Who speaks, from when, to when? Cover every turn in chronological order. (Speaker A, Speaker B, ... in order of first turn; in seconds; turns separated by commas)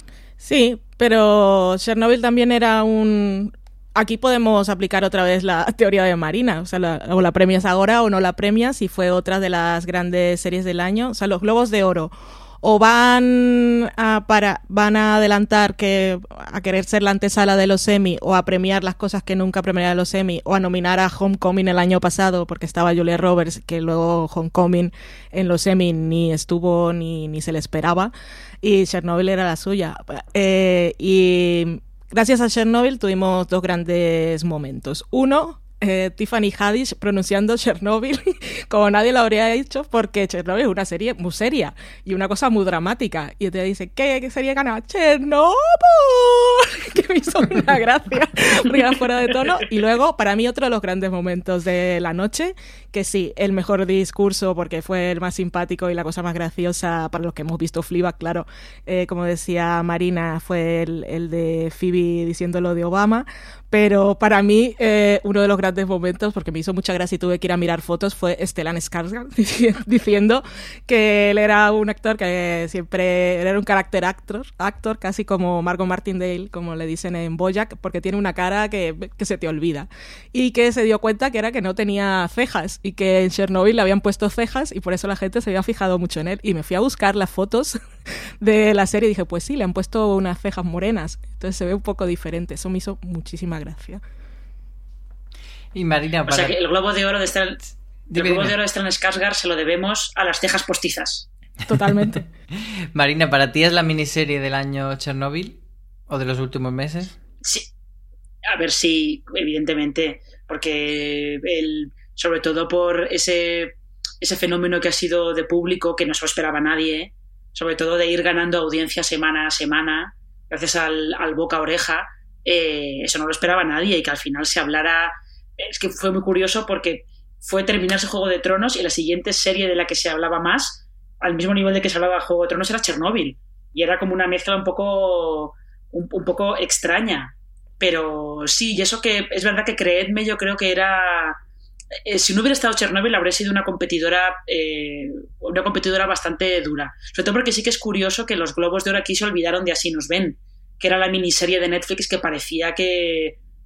Speaker A: 0.4-12.1, Speaker A: 12.6-28.1, Speaker A: 28.6-87.8, Speaker A: 88.4-94.0, Speaker B: 95.7-96.5, Speaker C: 96.3-97.6, Speaker C: 98.1-101.2, Speaker B: 98.1-98.5, Speaker A: 101.7-102.2, Speaker B: 102.9-105.6, Speaker B: 106.1-107.2, Speaker C: 107.4-107.7, Speaker C: 108.5-141.4, Speaker C: 142.0-153.4